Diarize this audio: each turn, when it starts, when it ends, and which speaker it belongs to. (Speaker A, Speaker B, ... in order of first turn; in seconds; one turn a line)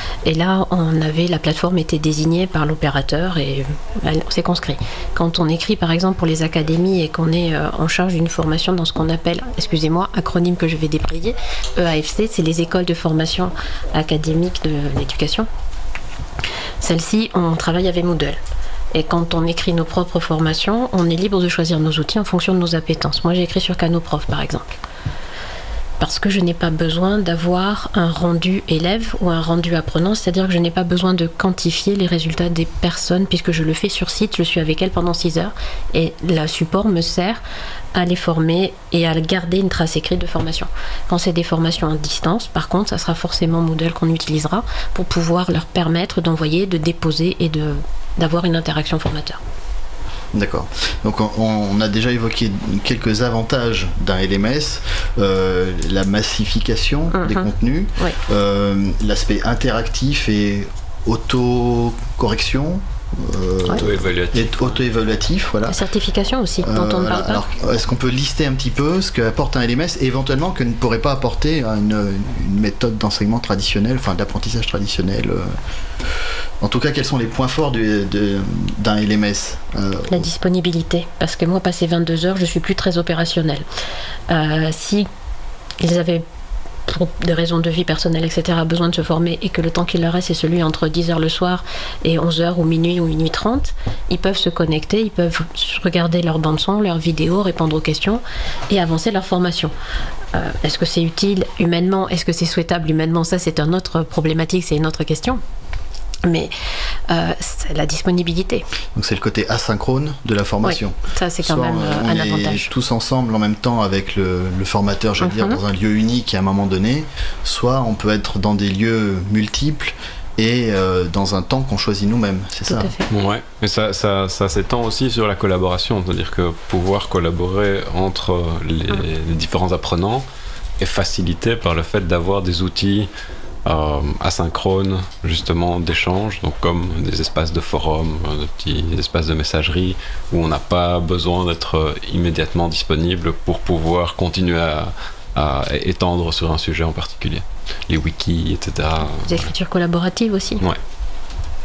Speaker A: 0.2-15.5
Speaker A: 16.8-18.4
Speaker A: 18.9-24.8
Speaker A: 26.0-37.4
Speaker A: 38.0-49.4
Speaker B: 50.3-65.8
Speaker A: 57.1-58.2
Speaker C: 63.8-64.8
Speaker A: 65.7-67.4
Speaker B: 66.6-75.5
Speaker B: 76.6-80.3
Speaker A: 80.1-83.7
Speaker A: 84.3-85.1
Speaker A: 85.8-86.2
Speaker A: 86.9-99.7
Speaker A: 100.3-105.4
Speaker A: 106.3-106.5
Speaker A: 107.1-108.7
Speaker B: 109.0-122.9
Speaker A: 110.6-112.7
Speaker A: 115.2-115.6
Speaker A: 122.7-123.1
Speaker C: 123.1-130.2
Speaker C: 130.8-133.1
Speaker C: 133.7-149.5
Speaker A: 149.2-150.6